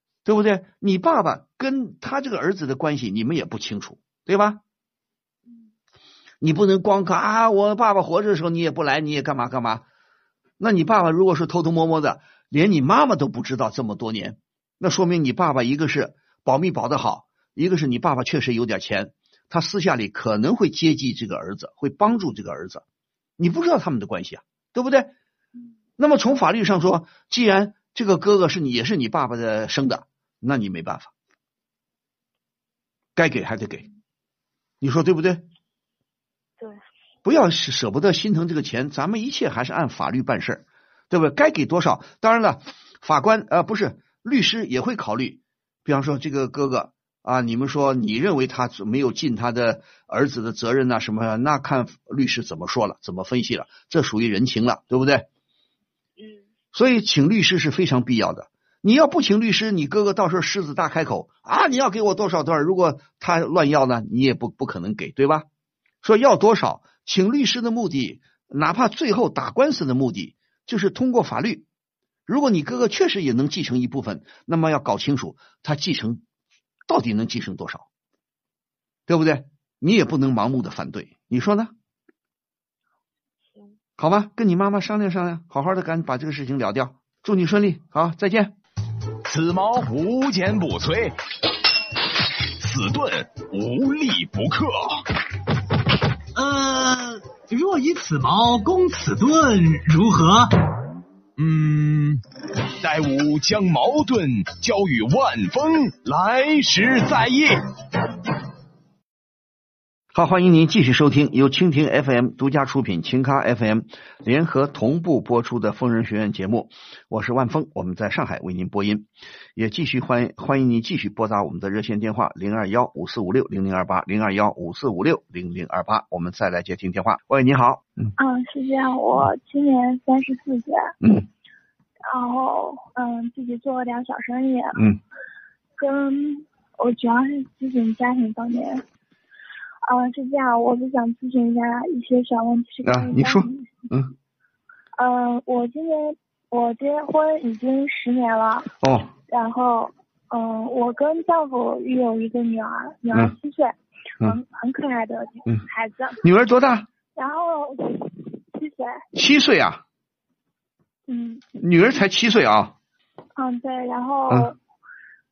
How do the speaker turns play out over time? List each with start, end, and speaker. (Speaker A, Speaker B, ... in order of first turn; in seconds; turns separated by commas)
Speaker A: 0.2-4.6, Speaker A: 6.4-9.8, Speaker A: 10.6-22.8, Speaker A: 23.4-25.1, Speaker A: 26.0-31.1, Speaker A: 33.1-33.8, Speaker A: 34.8-35.4, Speaker A: 37.2-55.3, Speaker A: 56.7-65.5, Speaker A: 66.0-71.7, Speaker A: 72.3-76.2, Speaker A: 76.9-77.8, Speaker A: 79.1-81.7, Speaker A: 84.0-88.5, Speaker B: 89.2-91.1, Speaker B: 92.6-95.0, Speaker C: 96.3-100.5, Speaker B: 101.4-102.2, Speaker B: 102.8-107.5, Speaker A: 110.1-128.1, Speaker D: 128.2-130.9, Speaker A: 131.0-131.3, Speaker D: 132.1-134.8, Speaker D: 135.8-138.8, Speaker D: 139.9-143.8, Speaker A: 142.8-144.1, Speaker D: 144.9-148.7, Speaker A: 148.8-149.1, Speaker D: 149.3-156.2, Speaker A: 156.2-156.9, Speaker D: 157.1-159.0, Speaker A: 159.1-159.8, Speaker D: 161.1-161.4, Speaker A: 161.6-162.7, Speaker D: 163.4-164.6